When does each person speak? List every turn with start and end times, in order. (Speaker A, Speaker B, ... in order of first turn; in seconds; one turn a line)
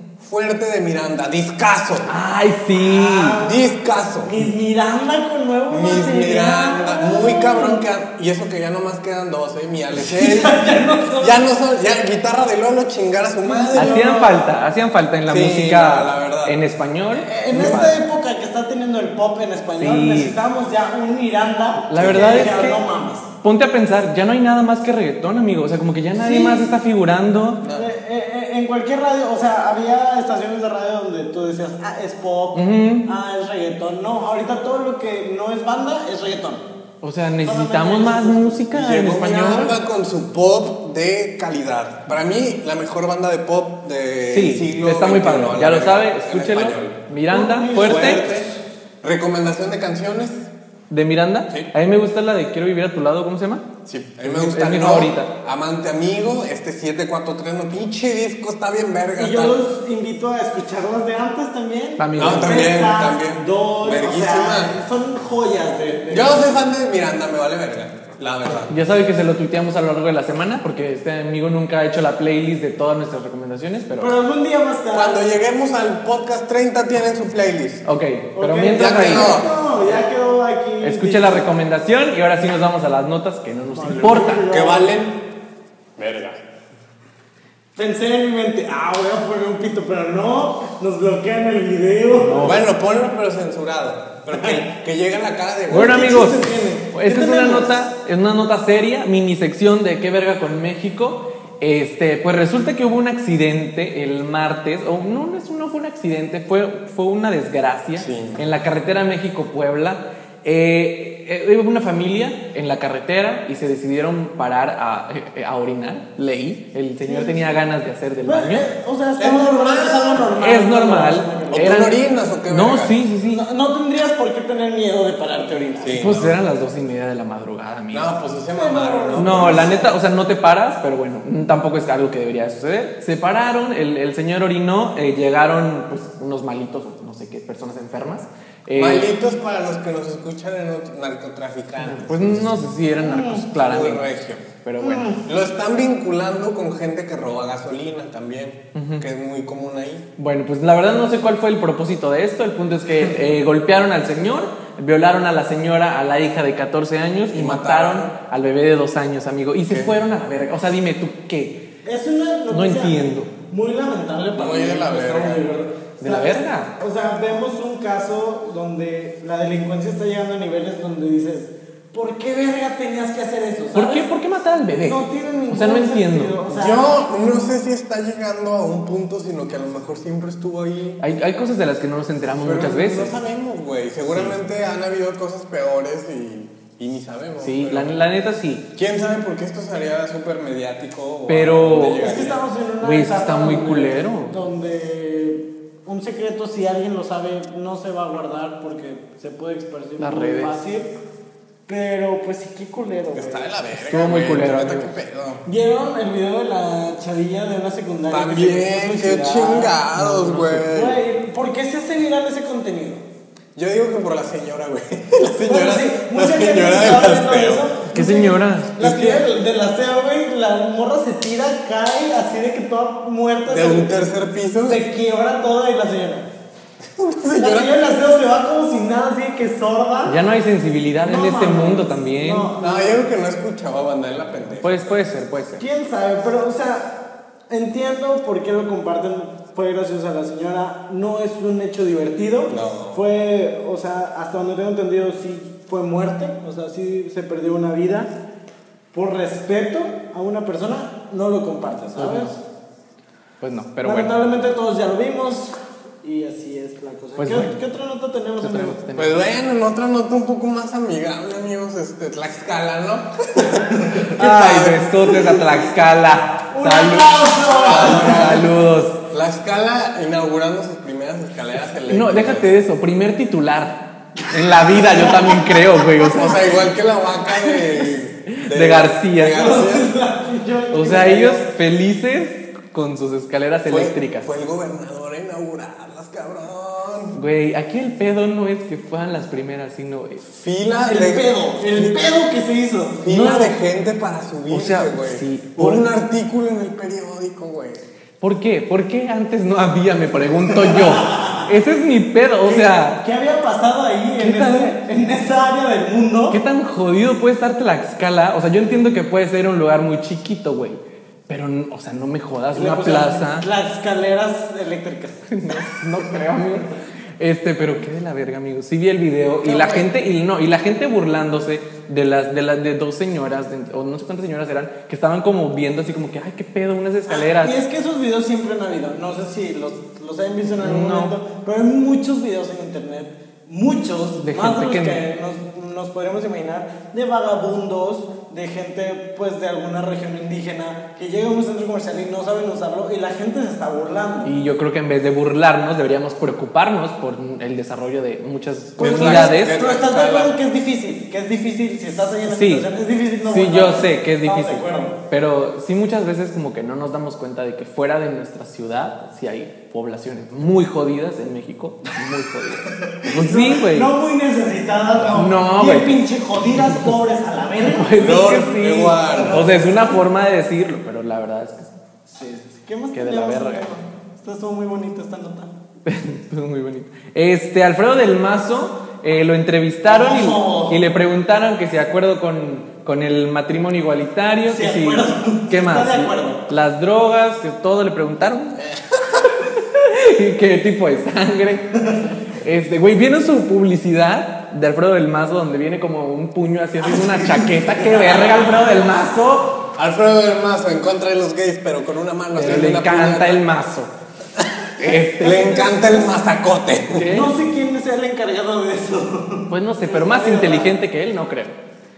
Speaker A: 0.2-2.1
Speaker B: 2.1-3.4
Speaker C: 2.7-3.6
Speaker A: 3.4-4.3
Speaker C: 4.2-7.8
Speaker A: 5.7-10.6
Speaker C: 9.9-11.4
Speaker A: 11.2-14.0
Speaker C: 13.4-14.5
Speaker B: 13.7-18.0
Speaker A: 15.3-16.6
Speaker C: 17.2-23.3
Speaker A: 17.5-17.8
Speaker B: 19.8-20.4
Speaker B: 21.9-22.8
Speaker A: 21.9-22.5
Speaker B: 23.4-27.6
Speaker C: 26.1-26.7
Speaker A: 27.6-27.9
Speaker C: 27.7-36.6
Speaker B: 32.5-33.1
Speaker B: 37.0-39.7
Speaker C: 37.4-38.6
Speaker A: 38.7-47.0
Speaker B: 44.3-48.2
Speaker C: 47.3-48.5
Speaker A: 47.8-48.5
Speaker A: 49.0-50.5
Speaker B: 50.9-53.6
Speaker A: 53.8-59.6
Speaker B: 54.2-55.3
Speaker C: 59.2-66.6
Speaker B: 62.0-62.6
Speaker A: 62.2-64.8
Speaker A: 66.1-68.7
Speaker B: 68.7-74.1
Speaker C: 74.0-75.2
Speaker A: 74.9-77.8
Speaker B: 77.8-79.4
Speaker C: 78.3-81.5
Speaker A: 78.7-79.5
Speaker B: 80.8-84.5
Speaker C: 83.7-85.0
Speaker A: 84.5-85.2
Speaker A: 86.0-86.4
Speaker C: 87.8-92.5
Speaker B: 92.2-92.7
Speaker A: 92.4-96.3
Speaker C: 94.3-94.6
Speaker C: 95.7-97.8
Speaker B: 95.7-118.7
Speaker A: 108.0-108.4
Speaker C: 117.0-117.5
Speaker C: 118.2-121.7
Speaker A: 119.2-120.3
Speaker B: 120.4-123.4
Speaker A: 121.5-123.0
Speaker C: 123.3-126.0
Speaker A: 125.8-126.4
Speaker B: 125.9-128.1
Speaker A: 127.9-129.8
Speaker C: 128.5-129.9
Speaker B: 129.2-139.1
Speaker A: 138.7-142.6
Speaker B: 141.8-144.0
Speaker C: 143.0-143.5
Speaker A: 143.5-144.4
Speaker B: 144.6-145.2
Speaker C: 144.8-145.2
Speaker A: 145.2-150.1
Speaker B: 148.7-149.1
Speaker B: 150.2-161.6
Speaker A: 157.3-158.1
Speaker A: 159.7-159.9
Speaker C: 161.8-174.1
Speaker B: 162.5-163.3
Speaker A: 164.3-165.4
Speaker B: 166.0-166.7
Speaker B: 173.7-176.4
Speaker C: 174.8-177.0
Speaker A: 176.5-181.0
Speaker B: 181.0-183.2
Speaker A: 182.4-187.9
Speaker B: 187.4-188.6
Speaker A: 188.7-192.4
Speaker B: 191.3-192.3
Speaker C: 191.9-200.9
Speaker B: 192.8-194.3
Speaker B: 200.0-200.6
Speaker C: 201.7-203.5
Speaker A: 203.1-205.4
Speaker B: 203.7-204.9
Speaker C: 205.4-209.7
Speaker A: 208.1-211.0
Speaker B: 209.9-210.7
Speaker C: 210.6-213.0
Speaker A: 213.5-217.7
Speaker C: 215.4-223.9
Speaker B: 217.9-218.8
Speaker A: 218.8-219.2
Speaker A: 223.5-224.8
Speaker C: 224.7-226.2
Speaker A: 226.9-227.9
Speaker C: 227.4-230.2
Speaker B: 230.1-232.5
Speaker C: 231.0-233.0
Speaker A: 232.6-235.0
Speaker B: 234.6-235.6
Speaker C: 235.6-248.1
Speaker A: 242.5-243.0
Speaker C: 248.9-252.4
Speaker B: 251.9-252.3
Speaker B: 253.4-254.1
Speaker C: 253.8-258.8
Speaker B: 257.2-257.5
Speaker B: 258.4-259.2
Speaker A: 258.9-264.8
Speaker C: 263.7-264.2
Speaker B: 264.1-269.0
Speaker C: 265.1-265.6
Speaker C: 266.5-268.5
Speaker A: 267.4-268.5
Speaker A: 269.1-272.5
Speaker B: 271.9-276.4
Speaker C: 274.5-276.0
Speaker A: 276.0-279.9
Speaker B: 278.3-279.5
Speaker C: 279.2-281.4
Speaker B: 280.7-284.3
Speaker A: 283.7-287.2
Speaker B: 287.1-290.2
Speaker A: 290.2-292.0
Speaker C: 290.8-293.1
Speaker A: 293.0-297.8
Speaker B: 293.1-293.5
Speaker B: 294.5-295.9
Speaker B: 298.2-303.0
Speaker C: 300.6-301.5
Speaker C: 302.4-306.4
Speaker B: 304.2-304.8
Speaker B: 306.3-313.5
Speaker C: 312.5-315.3
Speaker B: 315.3-327.6
Speaker A: 319.4-319.9
Speaker C: 327.1-344.3
Speaker B: 330.6-331.1
Speaker B: 334.2-335.0
Speaker B: 344.2-349.6
Speaker C: 348.8-355.0
Speaker A: 348.8-350.3
Speaker B: 352.3-352.7
Speaker B: 353.2-363.9
Speaker C: 362.8-367.9
Speaker B: 365.1-366.0
Speaker B: 367.7-371.8
Speaker A: 367.9-369.5
Speaker C: 369.1-370.0
Speaker C: 372.1-375.6
Speaker B: 372.9-373.6
Speaker B: 375.8-388.6
Speaker C: 379.9-380.8
Speaker C: 384.5-386.4
Speaker B: 389.3-399.6
Speaker C: 396.9-398.5
Speaker A: 399.7-403.4
Speaker B: 402.3-403.9
Speaker A: 404.4-407.1
Speaker B: 404.8-405.5
Speaker C: 405.2-406.1
Speaker B: 406.9-407.3
Speaker C: 407.1-410.8
Speaker B: 409.5-411.5